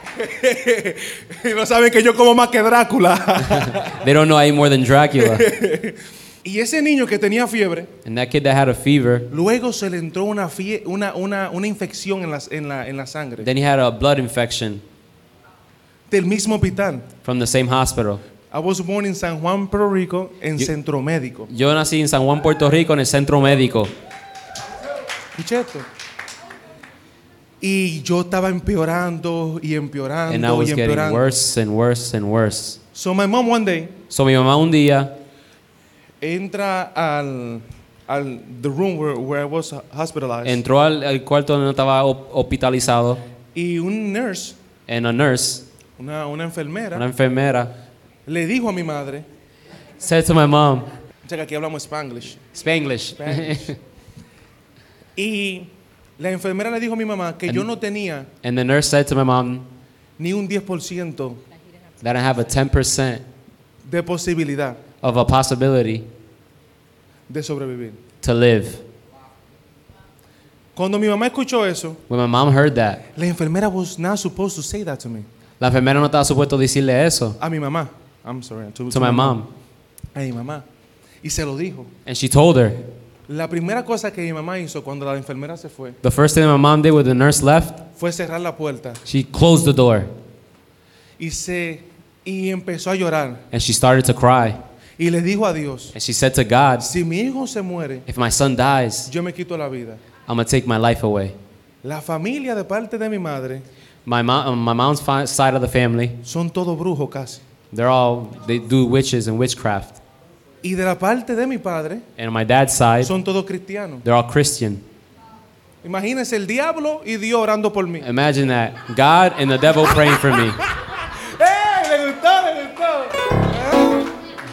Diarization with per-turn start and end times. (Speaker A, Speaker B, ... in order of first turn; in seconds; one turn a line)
Speaker A: 0.1-4.0
Speaker B: 3.5-5.5
Speaker A: 5.2-7.9
Speaker B: 8.0-9.3
Speaker A: 9.3-13.5
Speaker B: 13.4-14.8
Speaker A: 16.1-17.1
Speaker B: 17.2-18.2
Speaker A: 18.5-21.5
Speaker B: 21.5-23.9
Speaker A: 25.3-25.9
Speaker A: 27.6-31.3
Speaker B: 30.3-32.8
Speaker A: 32.9-33.9
Speaker B: 34.1-35.1
Speaker A: 36.2-40.6
Speaker B: 40.4-43.2
Speaker A: 43.5-44.6
Speaker B: 44.9-45.6
Speaker A: 46.0-47.0
Speaker B: 46.9-47.7
Speaker A: 48.3-49.2
Speaker B: 50.0-50.9
Speaker A: 51.2-52.4
Speaker B: 52.5-53.8
Speaker A: 53.2-53.7
Speaker A: 55.2-58.3
Speaker B: 58.4-59.7
Speaker A: 60.2-61.4
Speaker B: 62.0-63.2
Speaker A: 63.9-64.8
Speaker B: 65.0-66.1
Speaker A: 67.3-68.0
Speaker B: 68.2-68.8
Speaker A: 70.8-72.0
Speaker B: 72.1-73.0
Speaker A: 73.1-75.3
Speaker B: 75.6-77.4
Speaker A: 77.4-79.4
Speaker B: 78.9-79.5
Speaker A: 80.1-80.6
Speaker A: 81.2-81.9
Speaker B: 82.0-82.8
Speaker A: 83.3-86.0
Speaker B: 86.0-87.8
Speaker A: 88.0-89.0
Speaker B: 89.0-90.1
Speaker A: 91.2-93.4
Speaker B: 93.5-94.6
Speaker A: 95.0-95.9
Speaker B: 95.9-96.9
Speaker A: 96.8-98.0
Speaker B: 98.1-99.1
Speaker A: 99.1-100.0
Speaker B: 100.2-101.3
Speaker A: 101.8-103.6
Speaker B: 104.0-106.2
Speaker A: 106.2-107.4
Speaker B: 107.7-110.0
Speaker A: 110.6-112.0
Speaker B: 112.2-113.1
Speaker A: 113.0-114.0
Speaker B: 114.0-114.8
Speaker A: 115.8-118.1
Speaker B: 118.0-120.6
Speaker A: 119.9-124.1